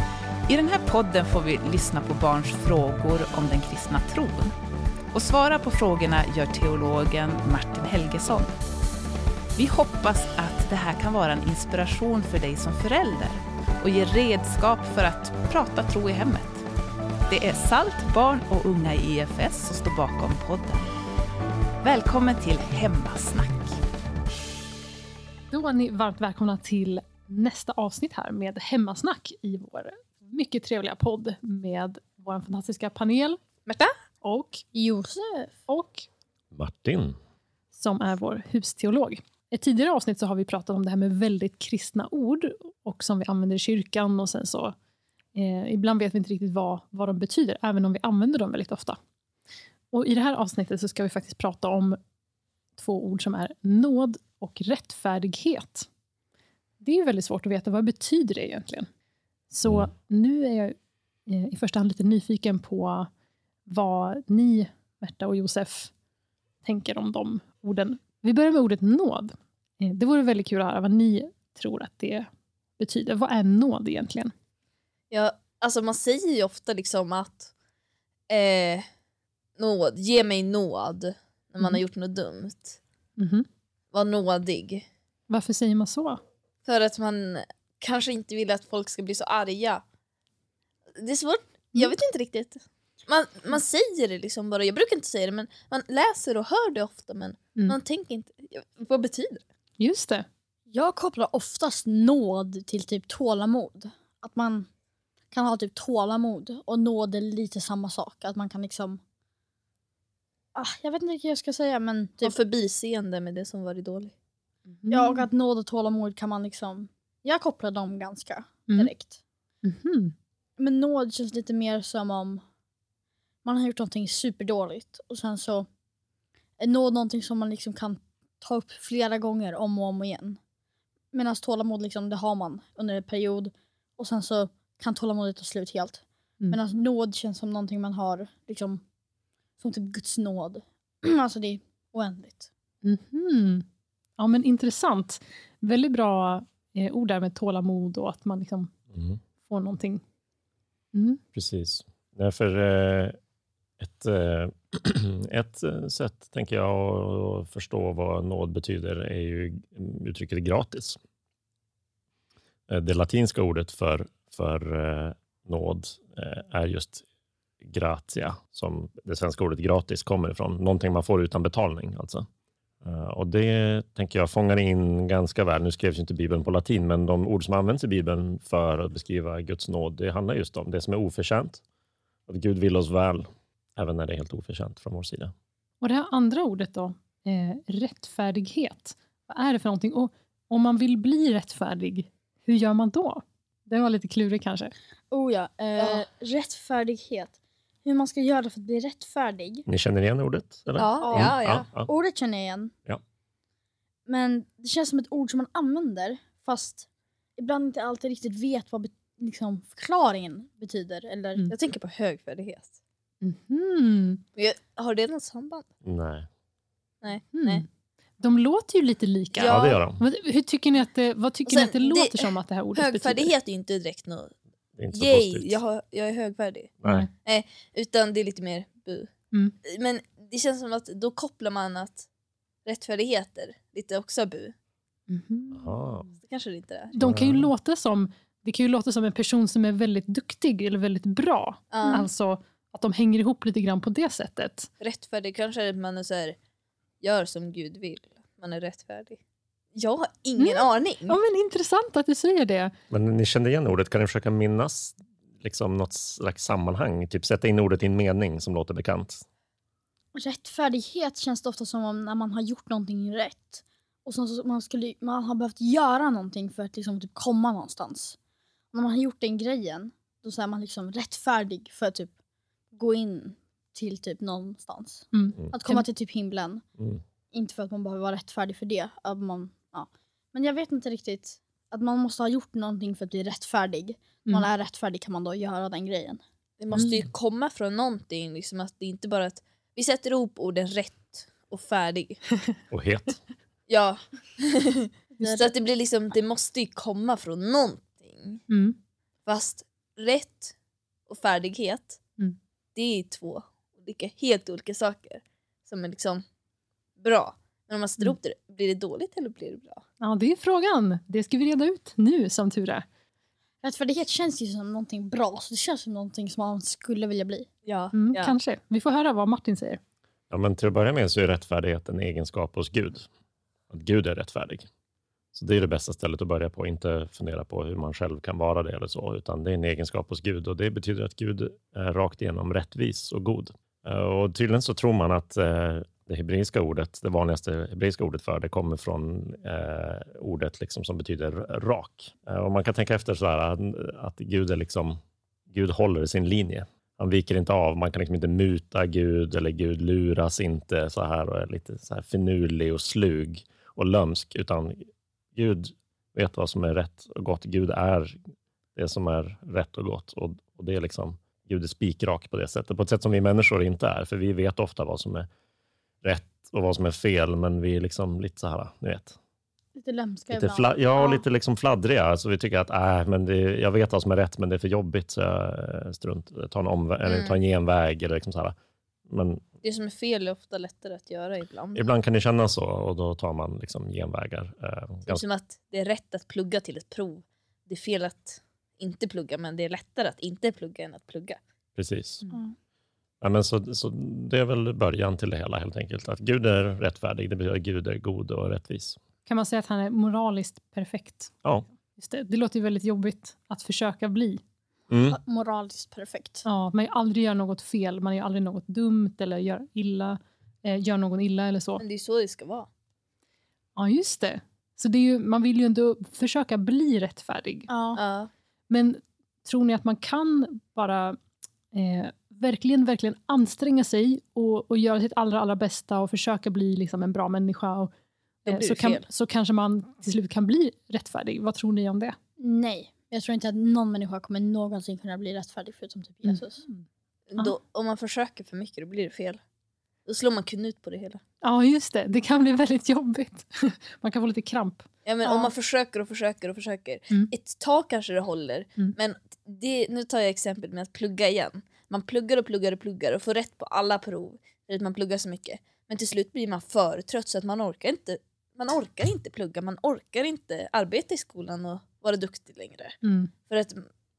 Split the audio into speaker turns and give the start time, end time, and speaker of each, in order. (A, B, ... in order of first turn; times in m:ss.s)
0:00.5-0:04.5 A
0:05.1-0:08.5 A
0:09.6-0:16.6 A
0:17.3-0:20.9 A
0:21.8-0:23.8 A
0:25.5-0:33.4 B
0:33.7-0:33.9 C
0:34.2-0:34.6 B
0:34.7-0:35.6 D
0:35.7-0:36.1 B
0:36.5-0:37.2 E
0:37.7-0:44.8 B
0:45.3-0:49.0 B
0:49.9-0:52.0 B
0:52.8-0:55.9 B
0:56.8-0:58.9 B
0:59.5-1:00.8 B
1:01.3-1:03.1 B
1:03.7-1:05.9 B
1:06.6-1:14.3 B
1:15.1-1:17.5 C
1:18.3-1:18.8 C
1:19.6-1:22.8 C
1:23.2-1:23.4 B
1:23.9-1:24.8 C
1:25.3-1:26.2 B
1:26.6-1:29.8 C
1:31.0-1:39.4 C
1:39.8-1:40.2 B
1:40.7-1:44.7 D
1:45.3-1:49.0 D
1:50.6-1:52.4 D
1:52.2-1:54.1 C
1:54.7-1:55.3 B
1:54.9-1:59.2 D
1:59.6-2:00.1 B
2:00.6-2:02.4 D
2:03.4-2:05.7 D
2:06.6-2:10.4 D
2:11.1-2:18.8 D
2:19.6-2:22.5 D
2:22.8-2:23.6 B
2:24.2-2:28.7 B
2:28.9-2:29.2 E
2:29.4-2:30.0 B
2:30.9-2:31.2 B
2:31.3-2:33.2 E
2:33.8-2:41.0 E
2:42.7-2:47.0 E
2:47.6-2:52.2 E
2:52.8-3:01.6 E
3:02.3-3:05.3 E
3:05.8-3:14.7 B
3:15.1-3:19.7 D
3:15.8-3:16.0 C
3:19.7-3:21.9 E
3:20.7-3:21.7 C
3:21.0-3:22.7 D
3:24.1-3:26.8 D
3:27.4-3:31.5 D
3:31.5-3:32.8 C
3:33.2-3:34.2 B
3:34.4-3:35.6 C
3:35.8-3:36.3 E
3:37.0-3:37.6 C
3:37.3-3:37.6 B
3:38.2-3:43.3 B
3:39.3-3:39.8 C
3:39.4-3:40.0 E
3:41.4-3:44.3 C
3:44.8-3:45.6 E
3:44.9-3:49.1 C
3:46.8-3:47.1 E
3:49.7-3:52.0 C
3:52.7-3:54.5 C
3:55.1-3:55.9 B
3:55.5-3:56.1 E
3:56.2-3:57.0 C
3:56.9-4:04.7 B
3:57.0-3:57.5 E
4:01.7-4:02.1 C
4:04.8-4:06.4 C
4:07.0-4:09.2 C
4:09.7-4:11.2 C
4:10.4-4:12.7 B
4:12.9-4:19.2 E
4:20.2-4:28.2 D
4:28.7-4:32.1 D
4:32.7-4:36.6 D
4:35.1-4:35.9 B
4:37.3-4:46.2 D
4:46.6-4:52.2 C
4:52.7-4:53.2 E
4:53.7-4:58.4 C
4:58.5-4:58.8 B
4:59.2-5:00.5 C
5:01.1-5:02.0 C
5:02.8-5:06.2 C
5:07.0-5:09.8 C
5:10.0-5:12.9 B
5:13.6-5:17.5 D
5:17.6-5:18.3 C
5:17.9-5:19.8 B
5:20.3-5:23.1 E
5:23.7-5:24.7 E
5:25.3-5:45.0 E
5:45.5-5:54.8 E
5:55.4-5:58.2 E
5:58.8-6:05.3 E
6:06.0-6:09.2 E
6:09.8-6:11.2 D
6:10.3-6:18.5 E
6:17.0-6:17.4 C
6:19.1-6:19.4 E
6:19.6-6:21.9 C
6:21.7-6:25.2 E
6:25.1-6:31.4 C
6:31.8-6:32.2 E
6:33.2-6:39.0 E
6:39.2-6:41.4 B
6:41.9-6:44.4 B
6:44.9-6:45.2 E
6:45.1-6:46.4 D
6:46.4-6:51.8 B
6:51.8-6:52.7 C
6:53.8-6:57.7 B
6:57.7-6:58.0 D
6:58.0-6:58.3 C
6:58.7-7:01.2 B
7:01.7-7:07.9 B
7:08.5-7:09.0 C
7:08.5-7:12.2 B
7:12.4-7:16.6 D
7:16.2-7:16.8 B
7:17.3-7:19.4 C
7:20.1-7:21.2 C
7:21.4-7:24.8 B
7:25.0-7:42.9 C
7:25.2-7:25.5 D
7:43.0-7:43.3 B
7:43.5-7:43.9 C